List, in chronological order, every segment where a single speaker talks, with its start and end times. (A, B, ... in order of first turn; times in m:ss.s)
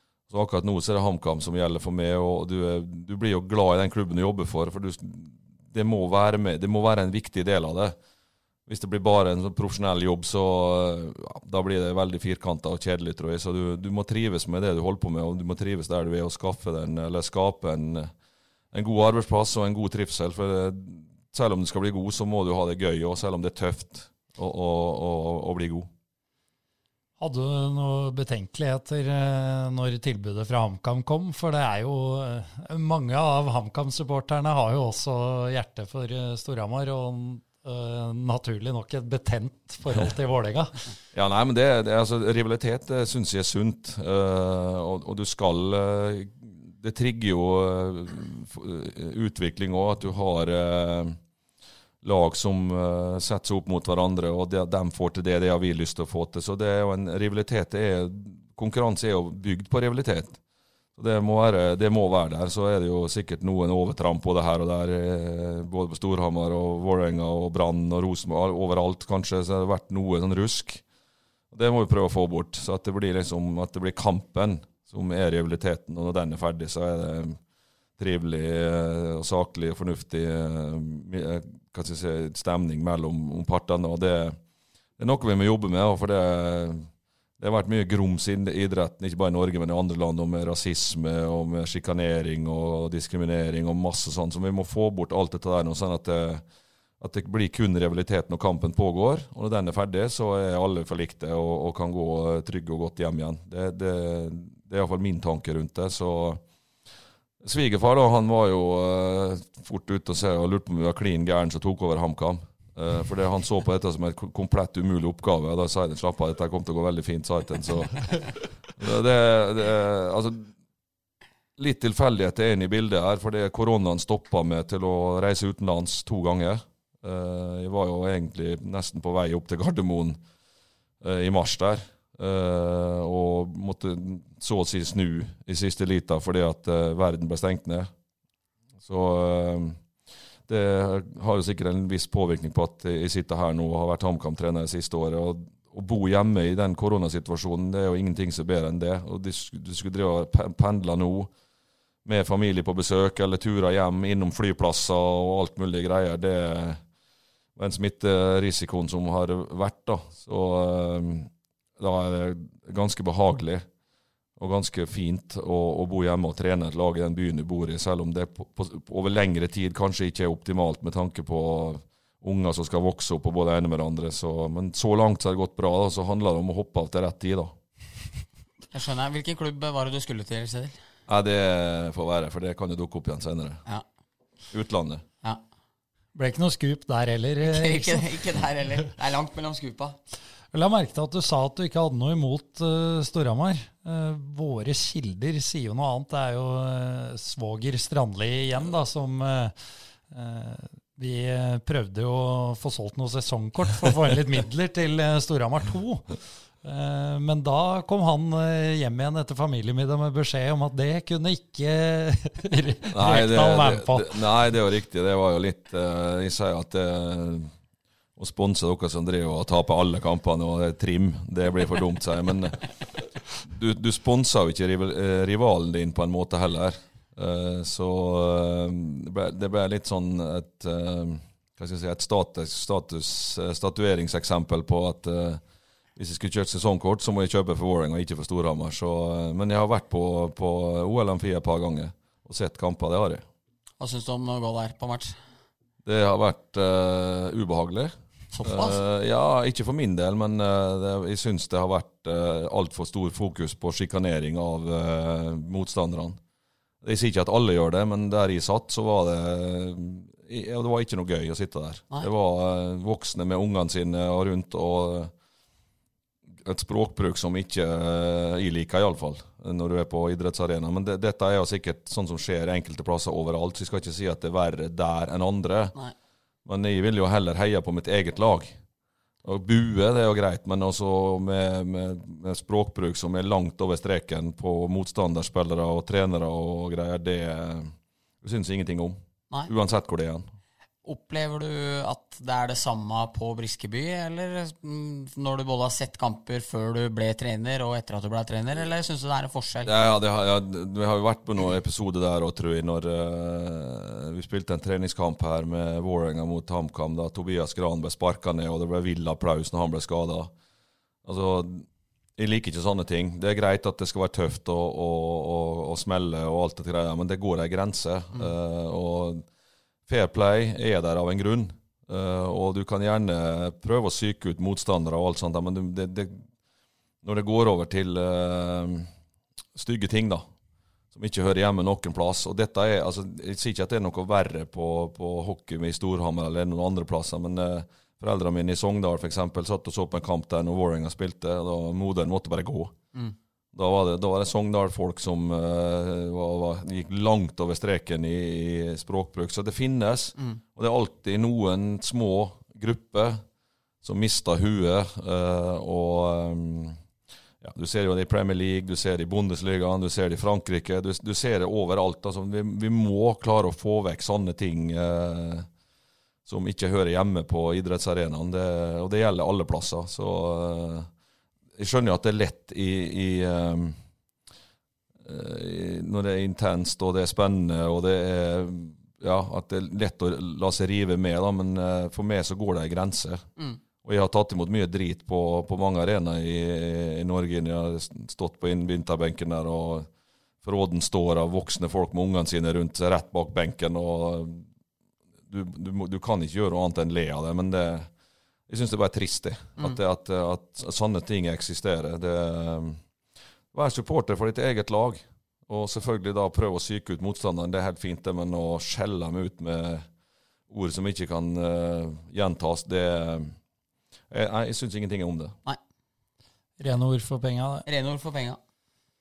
0:00.3-0:08.0 A
0:08.7-0:18.1 A
0:18.7-0:25.9 A
0:27.2-0:40.7 B
0:41.1-0:51.2 A
0:52.0-1:00.4 A
1:01.0-1:10.8 A
1:11.5-1:17.4 A
1:18.0-1:24.4 A
1:25.0-1:36.4 A
1:37.0-1:46.4 A
1:47.4-2:00.5 A
2:01.6-2:10.2 A
2:11.0-2:17.9 A
2:18.8-2:19.8 A
2:20.5-2:31.3 A
2:32.0-2:36.8 A
2:37.6-2:43.6 A
2:44.4-2:57.5 A
2:58.7-3:00.8 C
3:01.1-3:03.6 A
3:04.5-3:05.0 A
3:06.1-3:08.1 B
3:07.4-3:10.0 C
3:10.5-3:19.5 B
3:20.1-3:34.2 B
3:32.9-3:37.5 A
3:38.2-3:42.7 A
3:43.3-3:55.4 A
3:56.0-4:03.2 A
4:03.8-4:05.2 C
4:05.8-4:16.2 A
4:08.3-4:08.8 C
4:16.8-4:25.1 A
4:26.4-4:35.7 A
4:36.4-4:38.6 A
4:39.2-4:50.3 A
4:50.8-4:59.7 C
4:59.6-5:10.3 A
5:11.0-5:19.2 A
5:19.9-5:26.2 A
5:27.0-5:28.9 A
5:29.5-5:30.2 A
5:30.9-5:42.8 A
5:43.5-5:53.2 A
5:53.8-5:56.8 A
5:57.4-6:05.5 A
6:06.2-6:10.9 A
6:11.6-6:13.8 A
6:15.0-6:23.2 A
6:23.8-6:29.9 A
6:30.4-6:34.5 A
6:35.3-6:37.9 A
6:38.5-6:42.8 A
6:43.5-6:49.9 A
6:50.5-6:53.3 A
6:54.1-6:55.4 A
6:56.6-6:57.6 B
6:57.6-6:58.4 C